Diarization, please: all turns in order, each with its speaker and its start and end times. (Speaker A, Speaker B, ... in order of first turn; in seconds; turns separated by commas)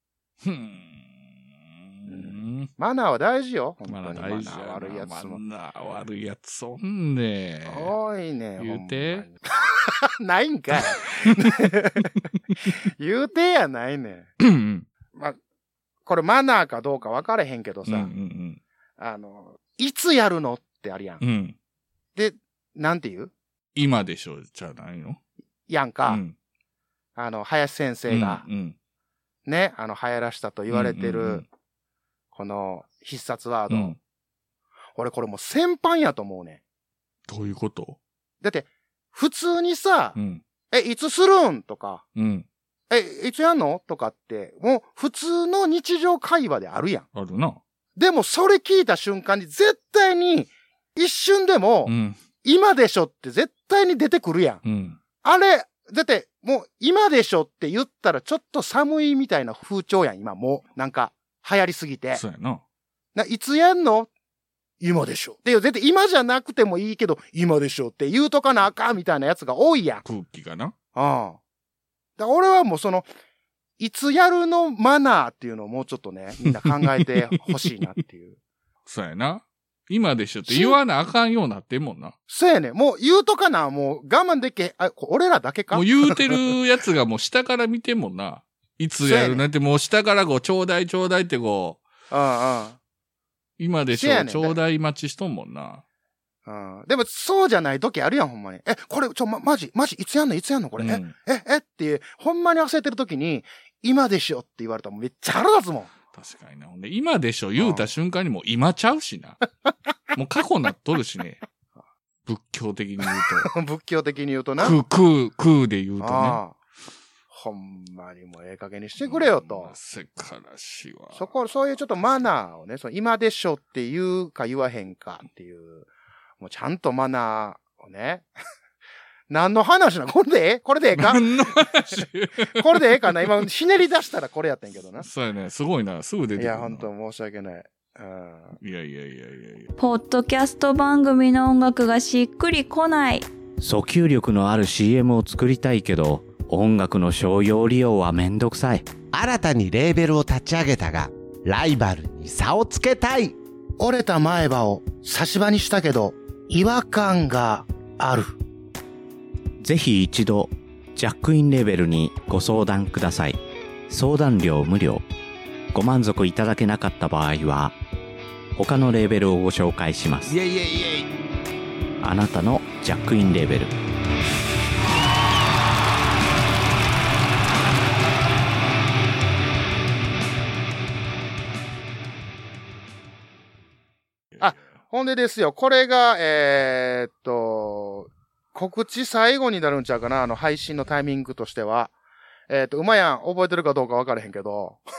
Speaker A: 0.4-2.7, Speaker B: 2.1-5.4, Speaker A: 3.9-7.9, Speaker B: 7.7-12.2, Speaker A: 8.6-9.3, Speaker B: 12.7-14.3, Speaker A: 14.4-14.9, Speaker B: 16.1-18.1, Speaker A: 17.9-18.6, Speaker B: 19.0-21.2, Speaker A: 21.2-21.6, Speaker B: 22.2-23.3, Speaker A: 23.8-25.2, Speaker B: 25.7-26.2, Speaker A: 26.1-26.4, Speaker B: 27.2-28.4, Speaker A: 28.1-28.8, Speaker B: 29.5-31.4, Speaker A: 30.7-31.4, Speaker B: 32.3-34.0, Speaker A: 33.7-34.0, Speaker B: 35.0-36.6, Speaker A: 37.3-38.0, Speaker B: 38.4-40.2, Speaker A: 40.1-40.4, Speaker B: 40.7-42.0, Speaker A: 42.2-42.5, Speaker B: 42.9-47.1, Speaker A: 47.1-47.6, Speaker B: 48.0-54.6, Speaker A: 51.9-52.2, Speaker A: 54.6-55.0, Speaker B: 55.2-62.2, Speaker A: 62.1-62.6, Speaker B: 63.1-64.1, Speaker B: 64.8-70.0, Speaker A: 70.0-70.7, Speaker B: 71.0-71.4, Speaker B: 72.2-73.1, Speaker B: 73.8-78.4, Speaker A: 76.7-77.2, Speaker A: 78.9-82.2, Speaker B: 80.5-80.8, Speaker B: 82.3-86.5, Speaker A: 85.7-91.8, Speaker B: 89.0-89.4, Speaker B: 92.1-92.8, Speaker A: 93.6-95.8, Speaker B: 93.9-94.6, Speaker B: 96.5-105.9, Speaker A: 100.8-101.2, Speaker A: 106.1-109.4, Speaker B: 107.6-107.9, Speaker A: 110.1-111.4, Speaker A: 112.3-113.5, Speaker B: 113.2-114.8, Speaker A: 114.6-116.4, Speaker B: 116.0-116.6, Speaker B: 117.3-119.7, Speaker A: 119.0-121.3, Speaker B: 121.1-125.9, Speaker B: 126.4-128.3, Speaker B: 129.3-131.3, Speaker A: 130.9-133.3, Speaker B: 132.6-135.1, Speaker A: 135.0-136.9, Speaker B: 136.4-138.6, Speaker A: 138.6-139.7, Speaker C: 139.8-143.3, Speaker D: 143.6-149.0, Speaker E: 149.1-153.4, Speaker B: 153.8-158.3, Speaker D: 159.6-165.1, Speaker D: 165.7-167.8, Speaker D: 168.6-170.4, Speaker D: 172.0-173.7, Speaker A: 184.3-184.6, Speaker B: 184.4-191.9, Speaker B: 192.5-194.8